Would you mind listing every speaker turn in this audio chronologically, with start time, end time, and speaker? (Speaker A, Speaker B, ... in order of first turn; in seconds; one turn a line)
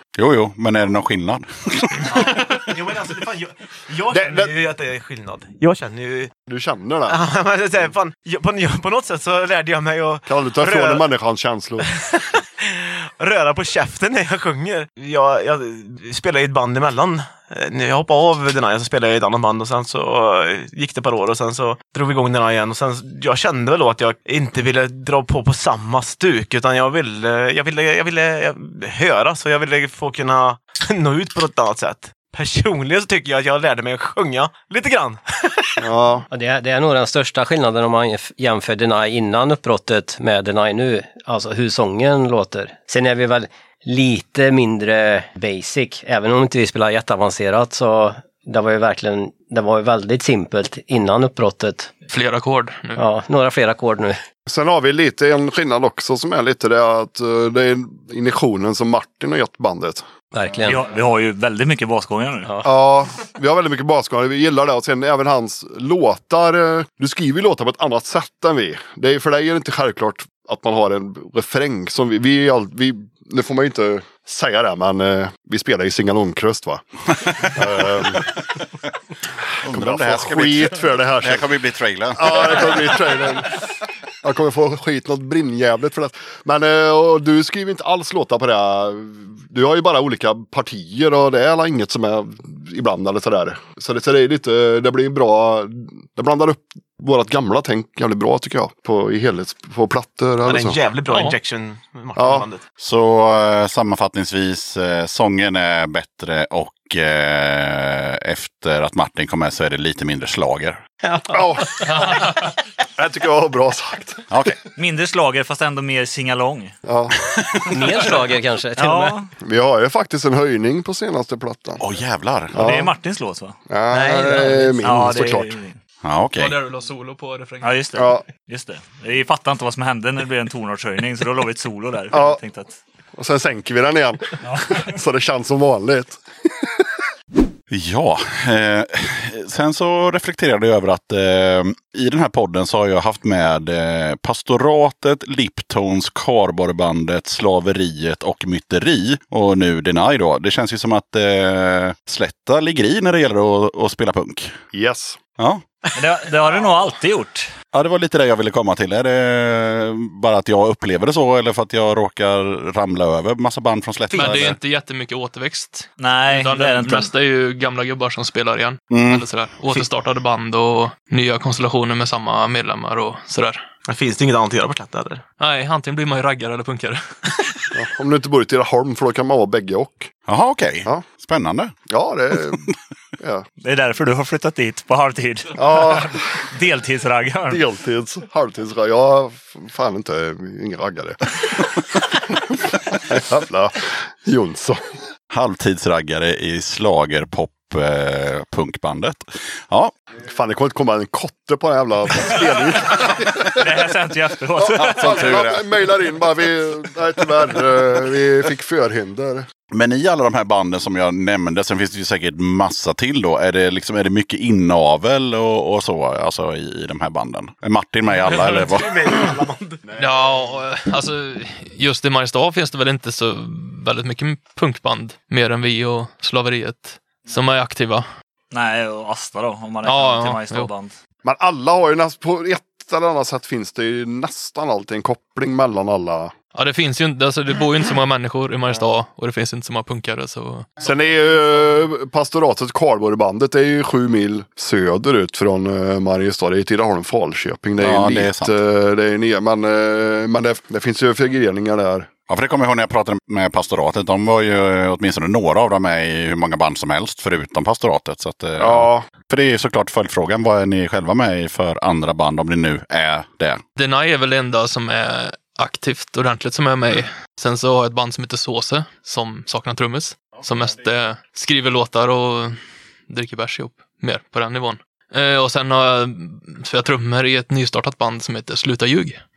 Speaker A: 0.2-2.3
Speaker B: 2.1-6.3
Speaker C: 4.1-4.5
Speaker C: 6.5-7.2
Speaker B: 7.1-11.1
Speaker C: 10.3-11.9
Speaker B: 11.8-35.8
Speaker C: 35.8-36.3
Speaker D: 36.3-51.9
Speaker E: 52.1-53.0
Speaker D: 53.0-54.2
Speaker C: 54.5-60.0
Speaker D: 60.3-60.9
Speaker F: 60.6-62.5
Speaker C: 62.6-76.8
Speaker C: 77.3-78.4
Speaker A: 79.6-83.2
Speaker C: 79.7-81.5
Speaker C: 82.1-83.7
Speaker C: 84.2-100.8
Speaker B: 100.5-102.6
Speaker E: 101.1-101.4
Speaker C: 102.2-102.5
Speaker A: 102.8-110.8
Speaker D: 111.0-111.3
Speaker C: 111.3-112.3
Speaker E: 111.9-112.3
Speaker C: 112.9-114.3
Speaker A: 114.3-114.6
Speaker F: 114.8-116.7
Speaker C: 116.9-117.2
Speaker D: 117.7-119.2
Speaker F: 118.8-119.3
Speaker C: 119.4-121.8
Speaker A: 121.8-122.7
Speaker C: 122.5-122.9
Speaker F: 122.6-123.6
Speaker C: 123.7-125.5
Speaker D: 123.9-124.8
Speaker F: 124.6-125.8
Speaker A: 126.0-126.6
Speaker E: 126.4-127.8
Speaker F: 127.6-132.8
Speaker C: 128.0-128.2
Speaker C: 132.1-132.4
Speaker C: 133.2-136.6
Speaker A: 137.7-154.5
Speaker C: 154.7-155.2
Speaker A: 155.4-155.7
Speaker F: 155.9-157.5
Speaker A: 157.7-164.6
Speaker E: 164.1-173.7
Speaker F: 166.0-167.1
Speaker A: 168.9-169.3
Speaker B: 173.9-175.2
Speaker E: 175.4-177.7
Speaker C: 177.7-180.1
Speaker A: 180.3-181.7
Speaker C: 181.9-182.7
Speaker C: 183.2-183.5
Speaker F: 183.6-187.6
Speaker C: 185.6-186.2
Speaker C: 187.5-194.8
Speaker A: 195.3-199.9
Speaker C: 200.2-203.6
Speaker F: 203.4-205.3
Speaker C: 204.6-209.5
Speaker A: 204.8-205.7
Speaker A: 209.7-219.0
Speaker B: 218.3-219.8
Speaker C: 219.9-220.4
Speaker E: 219.9-228.1
Speaker F: 228.5-231.0
Speaker E: 229.8-230.7
Speaker C: 231.2-236.3
Speaker E: 236.6-240.7
Speaker C: 240.8-252.1
Speaker A: 247.8-248.6
Speaker A: 252.3-263.6
Speaker C: 258.6-259.1
Speaker E: 263.8-279.2